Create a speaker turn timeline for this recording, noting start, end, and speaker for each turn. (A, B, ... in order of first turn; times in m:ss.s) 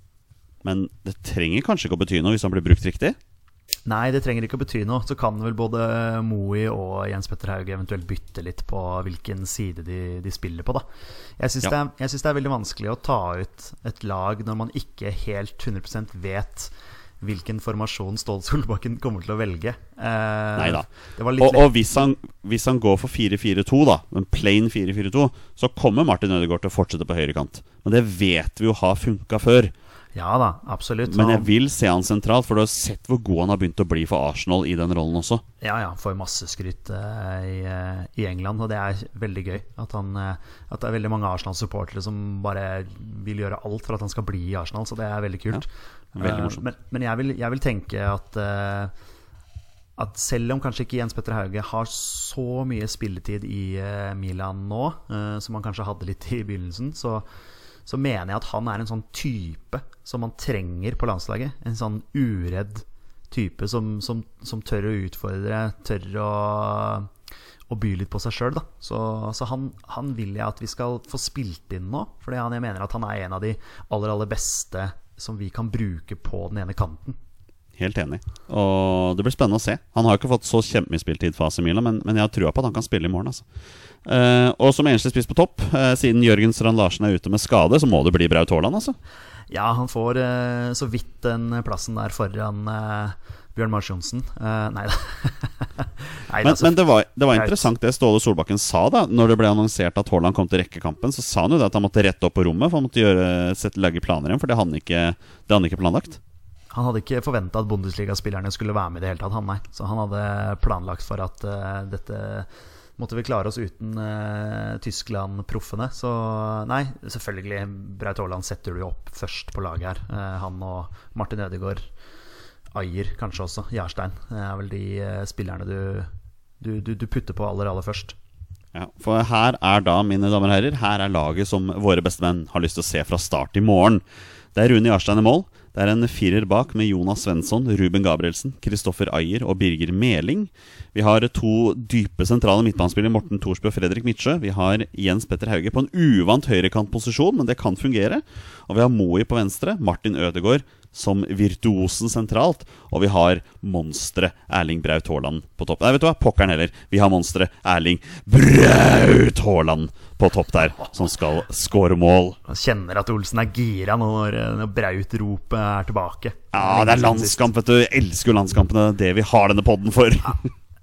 0:00.6-0:03.2 A
0:03.8-0:10.8 B
0:11.4-0:21.7 B
0:20.6-0:20.9 A
0:21.4-0:29.7 A
0:30.1-0:31.5 B
0:31.1-0:35.4 A
0:35.6-0:48.9 B
0:46.2-0:46.6 A
0:50.0-0:57.2 B
0:57.8-1:07.1 B
1:07.7-1:17.2 B
1:17.8-1:23.4 A
1:24.0-1:29.0 A
1:29.5-1:36.8 B
1:36.4-1:46.2 A
1:37.3-1:37.6 B
1:46.7-2:01.8 B
2:02.7-2:08.2 B
2:08.7-2:14.0 A
2:14.5-2:42.4 A
2:42.4-2:47.5 B
2:46.5-2:50.5 A